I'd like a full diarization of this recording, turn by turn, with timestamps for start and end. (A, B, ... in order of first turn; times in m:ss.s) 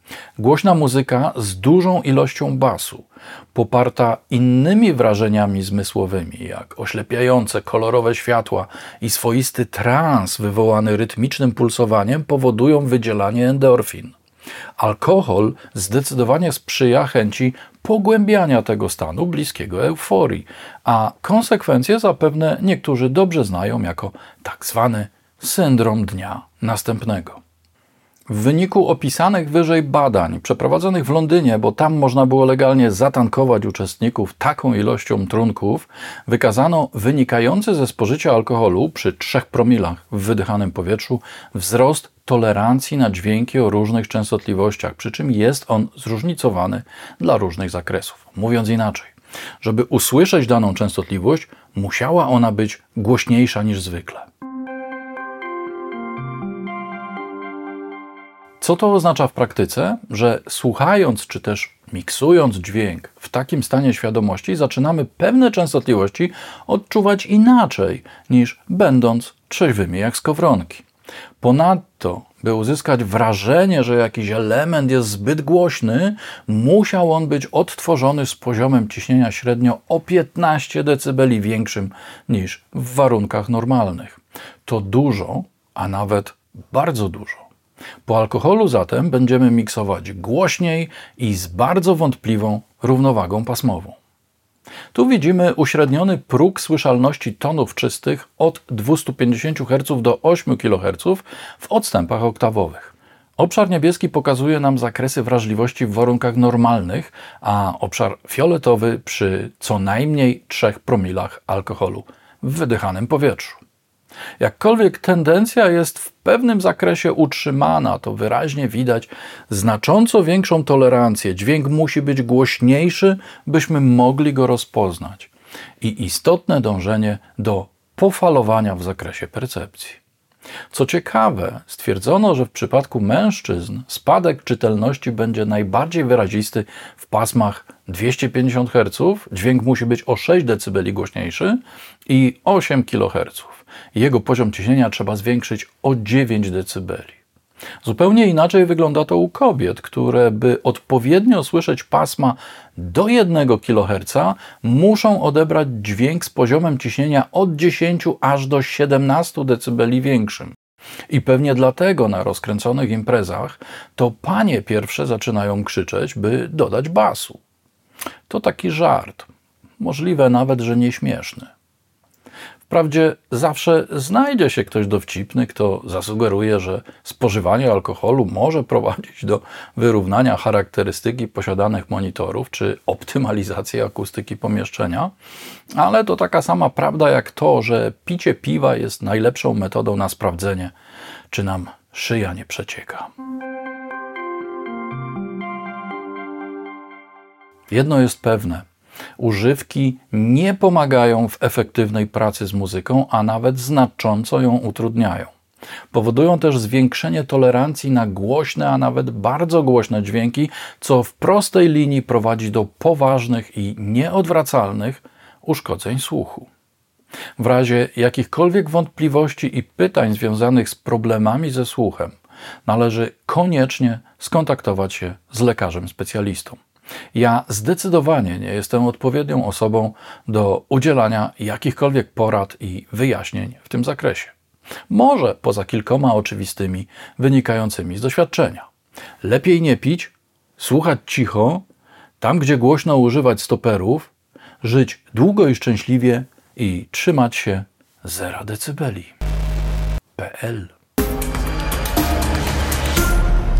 0:00.4-0:14.2 A
0:14.8-0:27.4 A
0:28.3-0:54.3 A
0:58.6-1:10.9 A
1:11.4-1:27.5 A
1:28.0-1:34.0 A
1:34.9-1:53.6 A
1:54.4-2:10.0 A
2:10.7-2:27.2 A
2:27.8-2:40.6 A
2:41.1-2:47.4 A
2:48.3-2:49.3 A
2:49.8-2:51.5 A
2:52.7-3:05.1 A
3:05.8-3:10.7 A
3:11.3-3:13.1 A
3:17.7-3:18.6 A
3:19.2-3:25.3 A
3:25.9-3:36.5 A
3:37.4-3:42.1 A
3:42.6-3:46.6 A
3:47.1-3:54.4 A
3:54.9-3:58.7 A
3:59.2-4:01.6 A
4:02.2-4:09.1 A
4:10.2-4:10.7 A